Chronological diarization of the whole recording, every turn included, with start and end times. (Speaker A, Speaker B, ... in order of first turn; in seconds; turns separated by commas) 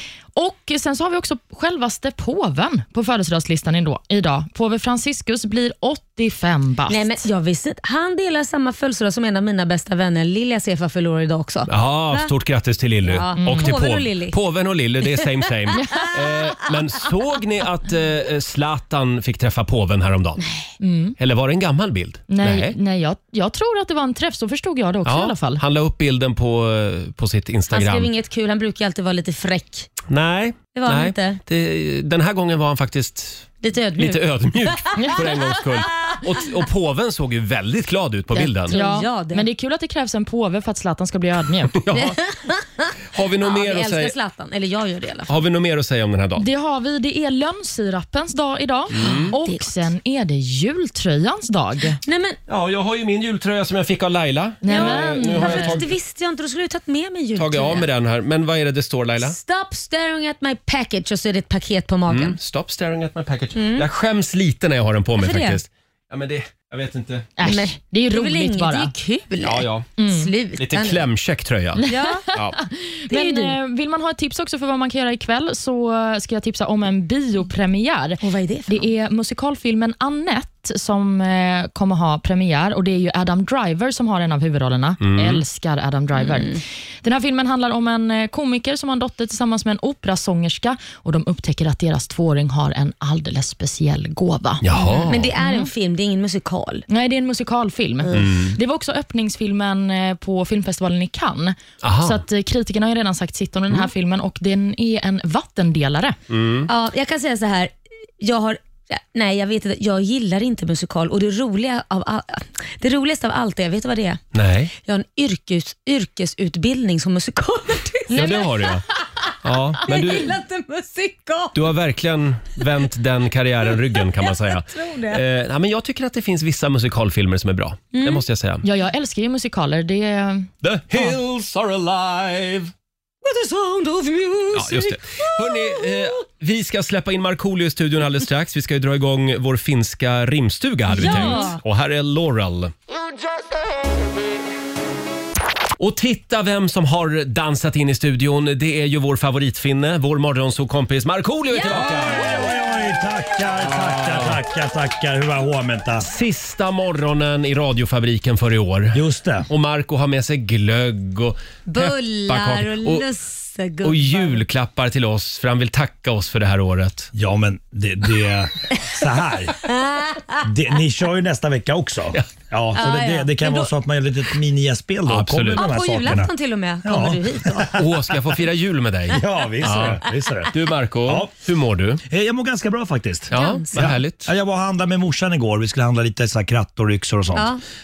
Speaker A: 0.3-7.2, Speaker B: 6.9-12.3, Speaker C: 11.7-20.4, Speaker B: 13.0-14.4, Speaker A: 13.4-13.7, Speaker B: 20.4-20.7, Speaker A: 20.8-21.1, Speaker C: 21.2-22.8, Speaker A: 22.3-25.6, Speaker C: 25.0-28.1, Speaker B: 27.7-29.9, Speaker C: 30.1-38.8, Speaker B: 30.7-31.4, Speaker B: 33.6-35.1, Speaker B: 38.3-39.5, Speaker A: 38.7-41.8, Speaker C: 41.8-42.2, Speaker B: 41.9-45.3, Speaker C: 43.1-44.1, Speaker C: 45.3-46.4, Speaker A: 46.4-52.0, Speaker C: 48.9-49.3, Speaker B: 49.0-49.9, Speaker B: 52.0-52.4, Speaker C: 52.5-55.9, Speaker A: 54.6-55.8, Speaker B: 54.7-57.9, Speaker C: 57.4-59.4, Speaker B: 59.2-62.4, Speaker C: 62.1-67.3, Speaker B: 63.5-63.9, Speaker B: 65.2-65.6, Speaker A: 67.4-68.9, Speaker B: 67.4-71.0, Speaker C: 69.4-69.9, Speaker A: 70.0-70.3, Speaker C: 70.6-72.6, Speaker A: 71.8-95.7, Speaker B: 71.8-72.3, Speaker B: 73.1-73.6, Speaker B: 78.2-78.9, Speaker C: 85.0-85.4, Speaker B: 86.2-86.6, Speaker C: 94.6-95.3, Speaker B: 95.1-96.8, Speaker A: 96.9-106.2, Speaker C: 98.1-98.6, Speaker C: 101.8-102.2, Speaker C: 106.3-106.7, Speaker B: 106.7-114.2, Speaker C: 114.3-114.7, Speaker B: 114.8-118.8, Speaker C: 118.1-118.8, Speaker C: 119.4-120.3, Speaker B: 119.8-121.6, Speaker C: 121.5-128.6, Speaker B: 124.2-125.2, Speaker B: 127.9-128.2, Speaker A: 128.6-131.1, Speaker C: 130.6-132.7, Speaker B: 133.2-136.1, Speaker C: 134.5-142.7, Speaker B: 140.9-141.6, Speaker A: 141.0-141.5, Speaker C: 145.8-152.4, Speaker B: 151.5-152.5, Speaker D: 151.7-156.1, Speaker C: 154.1-154.3, Speaker C: 156.0-163.1, Speaker D: 158.9-159.5, Speaker B: 161.7-164.4, Speaker C: 163.8-167.1, Speaker D: 167.1-169.6, Speaker B: 169.7-170.4, Speaker D: 170.4-176.3, Speaker B: 172.7-173.7, Speaker C: 175.1-175.7, Speaker B: 175.5-177.8, Speaker D: 176.8-177.8, Speaker C: 177.7-182.0, Speaker D: 179.1-181.3, Speaker D: 182.1-187.5, Speaker C: 183.3-184.3, Speaker B: 183.3-183.9, Speaker B: 187.3-187.6